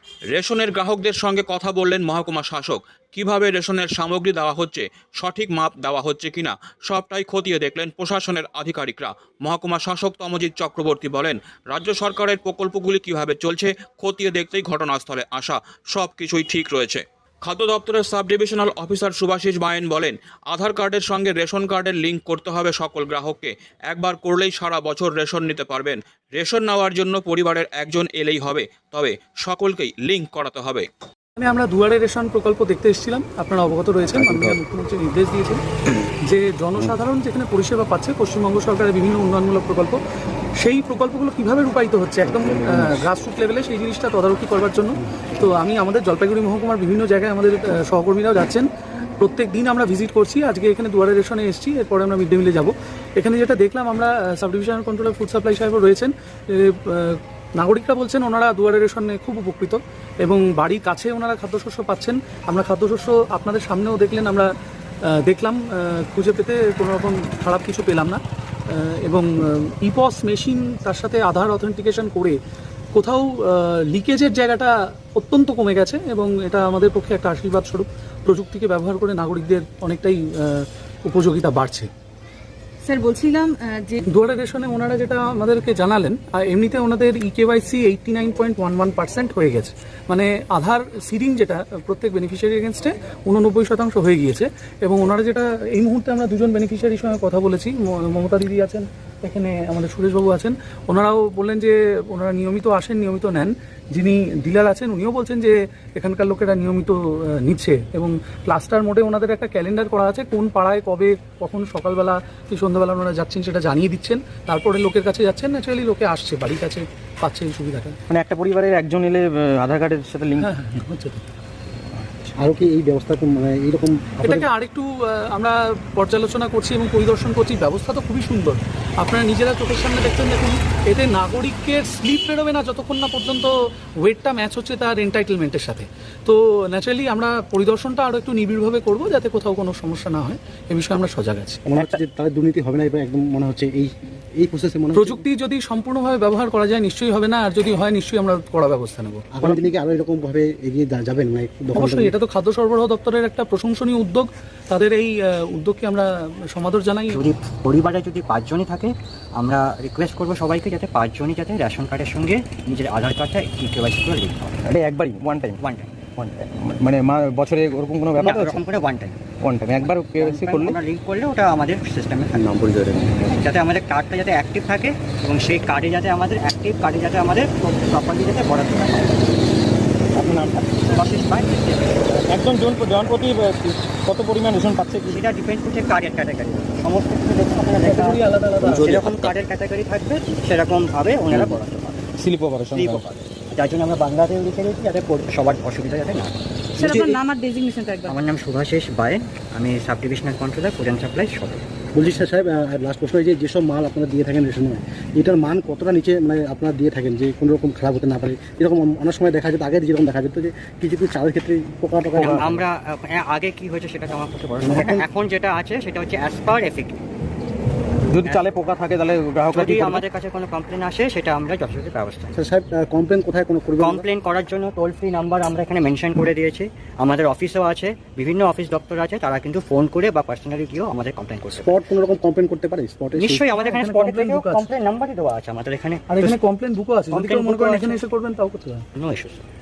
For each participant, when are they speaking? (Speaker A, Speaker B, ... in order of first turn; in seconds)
Speaker A: 0.3-30.9
Speaker B: 31.4-35.6, 36.3-40.0, 40.6-48.7, 49.2-64.5, 65.1-72.4, 73.0-81.9, 84.1-118.0, 120.4-121.2, 124.2-141.6, 144.9-149.2, 151.7-157.2, 187.8-188.9, 233.6-234.7, 236.1-238.8
Speaker C: 82.8-84.0, 196.8-198.2
Speaker D: 118.1-120.5, 164.6-165.6, 166.2-168.6, 169.4-170.8, 172.4-173.3, 180.2-180.8, 182.1-185.2, 188.7-189.0, 192.2-193.1, 212.1-212.5, 214.7-215.0, 218.1-220.0
Speaker E: 122.4-124.5, 141.7-145.2, 149.3-152.1, 201.9-212.6, 222.3-224.1, 231.6-233.4
Speaker F: 157.1-164.6, 165.6-165.9, 168.2-169.2, 170.2-172.5, 173.3-179.4, 180.8-182.1, 185.1-188.2, 188.8-192.1, 192.7-196.4, 198.1-201.7, 212.4-217.1, 218.2-218.5, 219.5-222.4, 223.8-231.8, 233.2-236.3, 237.1-238.0, 239.0-239.4